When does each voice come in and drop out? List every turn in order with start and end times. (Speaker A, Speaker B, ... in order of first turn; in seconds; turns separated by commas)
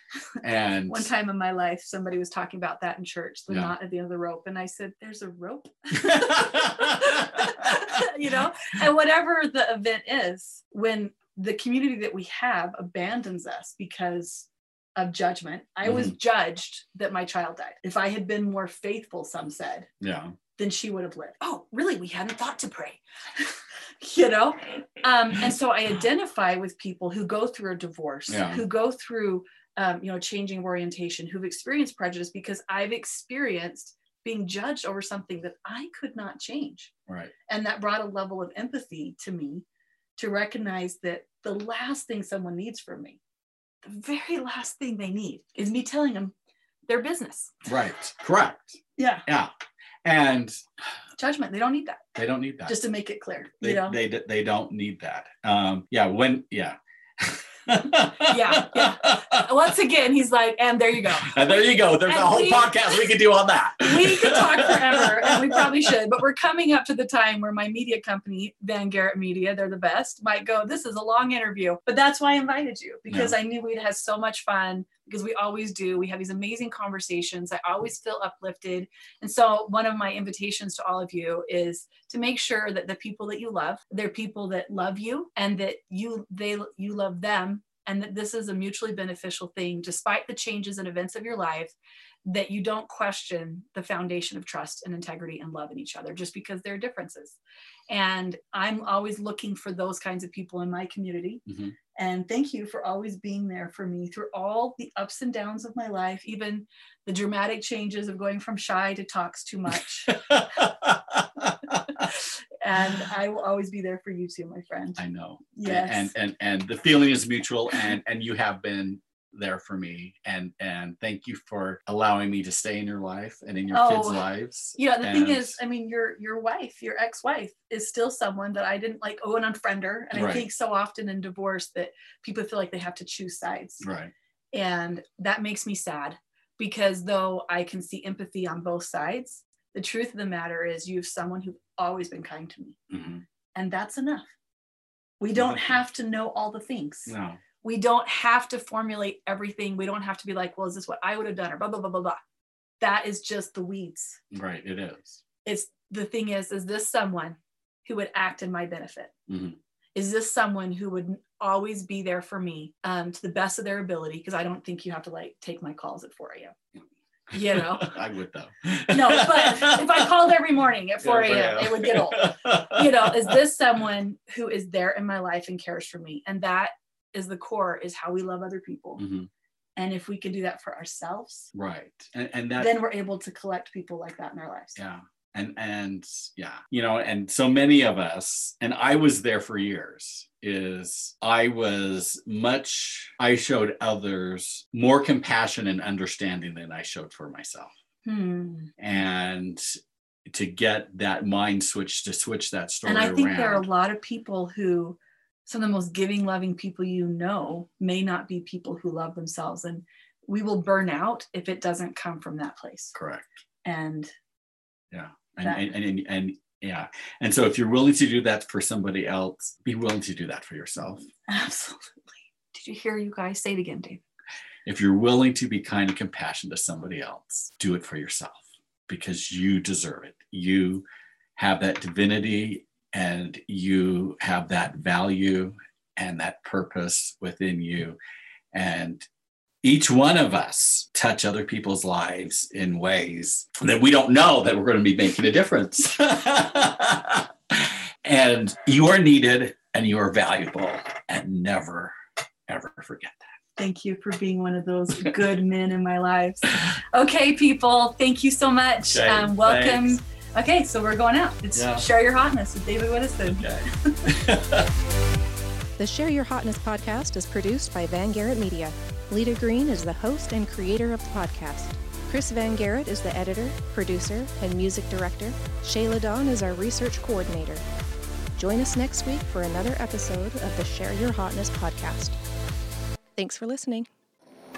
Speaker A: 0.4-1.1, Speaker B: 0.9-19.9, Speaker A: 5.9-8.0, Speaker A: 15.8-16.1, Speaker A: 20.0-20.3, Speaker B: 20.6-36.9, Speaker A: 28.3-28.6, Speaker B: 37.5-39.6, Speaker B: 40.2-43.2, Speaker B: 43.8-46.3, Speaker B: 46.9-47.6, Speaker A: 47.6-49.5, Speaker B: 49.0-49.2, Speaker A: 50.0-50.6, Speaker B: 51.2-52.0, Speaker A: 52.1-52.8, Speaker B: 52.6-54.0, Speaker A: 53.6-59.5, Speaker B: 58.2-62.8, Speaker A: 61.2-65.9, Speaker B: 63.8-91.7, Speaker A: 73.1-73.3, Speaker B: 92.2-97.4, Speaker B: 97.9-101.4, Speaker A: 101.5-101.7, Speaker B: 101.9-110.2, Speaker A: 110.1-112.0, Speaker B: 112.6-115.0, Speaker A: 115.0-125.6, Speaker B: 115.5-116.1, Speaker B: 123.7-133.8, Speaker A: 130.1-130.5, Speaker A: 133.8-134.1, Speaker B: 134.5-142.8, Speaker A: 142.9-143.2, Speaker B: 143.5-144.3, Speaker B: 145.2-152.2, Speaker A: 145.3-145.8, Speaker A: 147.1-147.4, Speaker B: 152.8-154.2, Speaker A: 154.3-155.2, Speaker B: 155.4-159.1, Speaker A: 159.3-159.6, Speaker B: 159.9-166.5, Speaker B: 167.3-167.9, Speaker A: 167.3-170.1, Speaker B: 168.9-179.0, Speaker A: 171.0-173.3, Speaker A: 179.0-179.3, Speaker B: 179.8-181.5, Speaker A: 181.5-182.8, Speaker B: 182.6-184.8, Speaker A: 184.8-197.7, Speaker B: 198.0-198.7, Speaker A: 198.8-199.7, Speaker A: 200.2-203.6, Speaker B: 202.8-212.9, Speaker A: 212.9-213.3, Speaker B: 213.6-214.1, Speaker A: 214.9-221.1, Speaker B: 221.3-224.0, Speaker A: 224.7-230.8, Speaker A: 231.3-238.0, Speaker A: 238.5-239.1, Speaker A: 239.6-251.9, Speaker A: 252.5-253.2, Speaker B: 253.6-264.2, Speaker A: 258.9-260.0, Speaker A: 261.5-261.9, Speaker A: 263.3-264.7, Speaker C: 265.8-277.6, Speaker C: 278.4-282.2, Speaker C: 283.1-283.9